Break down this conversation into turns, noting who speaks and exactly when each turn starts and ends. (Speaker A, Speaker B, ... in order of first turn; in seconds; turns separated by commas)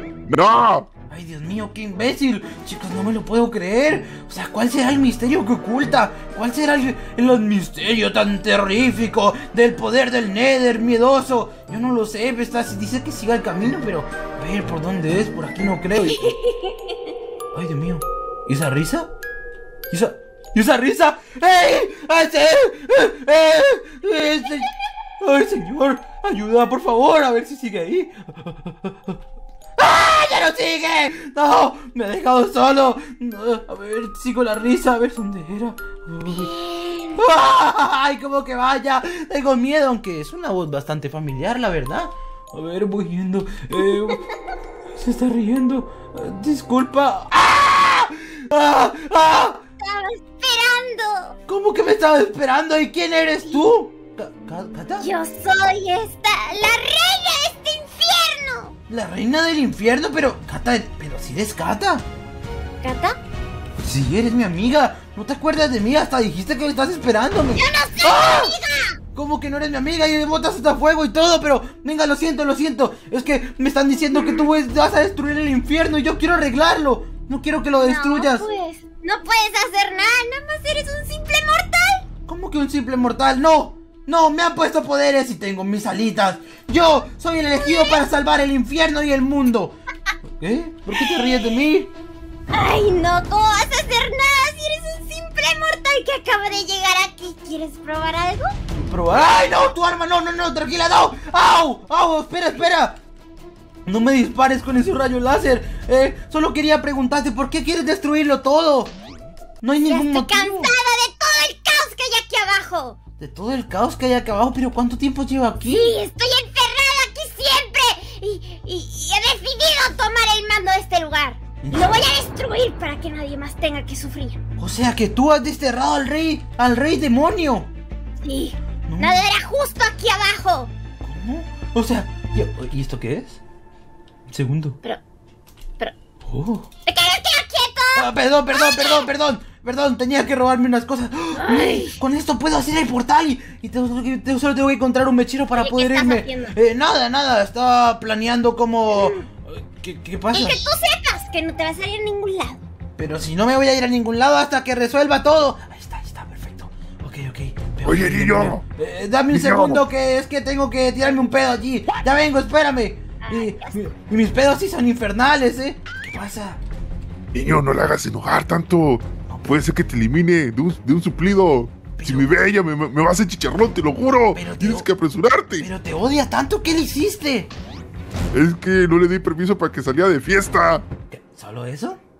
Speaker A: 0.3-0.9, Speaker B: 1.1-16.4, Speaker C: 16.1-16.9, Speaker B: 17.5-19.1, Speaker B: 19.9-29.2, Speaker B: 29.8-36.5, Speaker C: 36.2-37.2, Speaker B: 37.1-44.3, Speaker B: 45.0-49.6, Speaker C: 49.8-51.3, Speaker B: 51.5-55.1, Speaker C: 55.0-58.7, Speaker B: 58.9-62.0, Speaker C: 62.8-63.2, Speaker B: 63.8-68.5, Speaker C: 67.5-69.0, Speaker B: 69.1-78.4, Speaker C: 77.8-82.0, Speaker B: 82.2-89.7, Speaker C: 87.6-88.0, Speaker B: 90.4-91.9, Speaker C: 90.9-91.5, Speaker C: 92.5-98.5, Speaker B: 98.7-103.0, Speaker B: 103.8-108.9, Speaker B: 109.6-110.7, Speaker C: 109.9-113.0, Speaker B: 113.2-115.9, Speaker C: 115.6-124.4, Speaker B: 121.6-122.1, Speaker B: 124.6-127.7, Speaker C: 128.2-130.7, Speaker B: 128.9-129.2, Speaker B: 131.0-133.4, Speaker B: 134.3-134.8, Speaker B: 136.2-136.7, Speaker C: 136.8-139.1, Speaker B: 137.9-150.6, Speaker C: 141.3-142.0, Speaker C: 145.6-146.6, Speaker C: 148.9-149.2, Speaker C: 150.3-152.6, Speaker B: 153.0-166.6, Speaker A: 157.8-158.6, Speaker A: 159.3-159.8, Speaker C: 163.2-163.9, Speaker A: 167.3-175.7, Speaker B: 171.9-172.4, Speaker B: 174.3-174.9, Speaker B: 175.6-177.5, Speaker A: 178.3-180.8, Speaker B: 181.1-182.0